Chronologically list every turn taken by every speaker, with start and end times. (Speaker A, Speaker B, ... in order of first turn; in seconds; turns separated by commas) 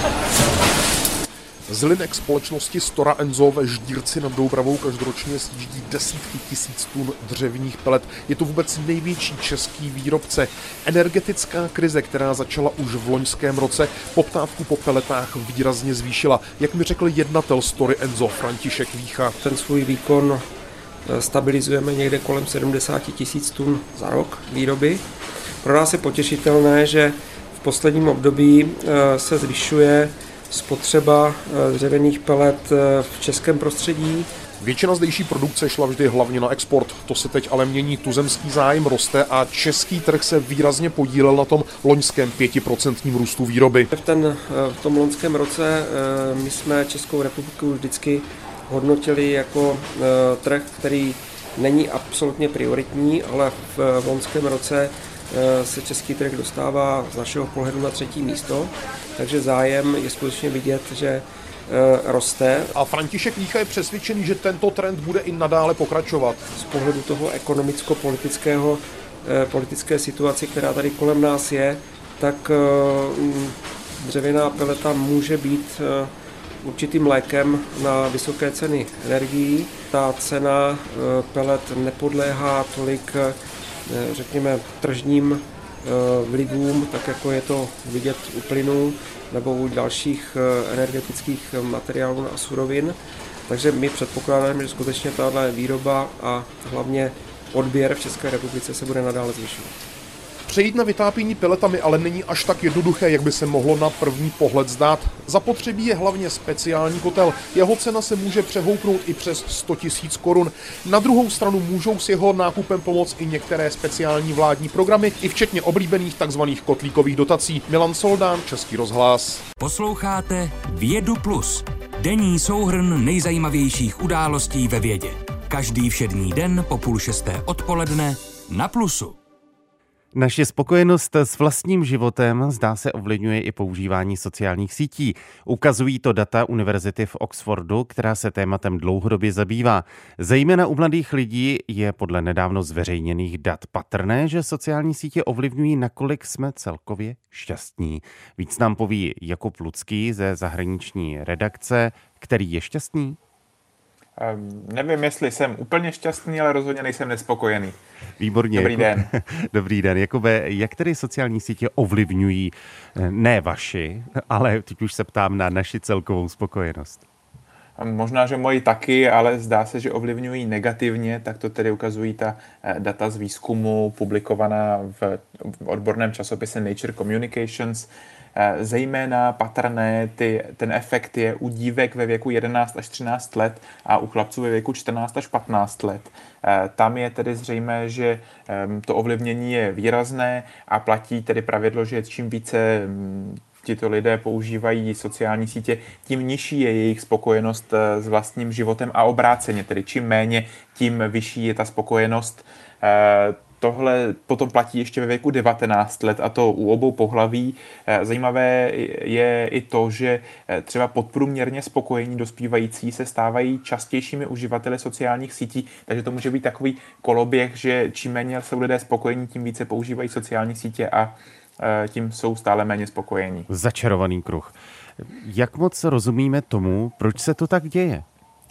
Speaker A: 1.7-19.4, Speaker B: 19.4-20.5, Speaker B: 21.0-25.0, Speaker B: 25.6-34.3, Speaker A: 34.6-43.9, Speaker B: 43.9-62.7, Speaker A: 62.7-66.4, Speaker B: 66.5-99.8, Speaker A: 100.5-119.4, Speaker C: 119.6-129.2, Speaker D: 130.1-153.2, Speaker E: 154.2-157.8, Speaker D: 158.2-167.0, Speaker E: 158.5-159.1, Speaker E: 167.8-223.5, Speaker D: 223.5-228.0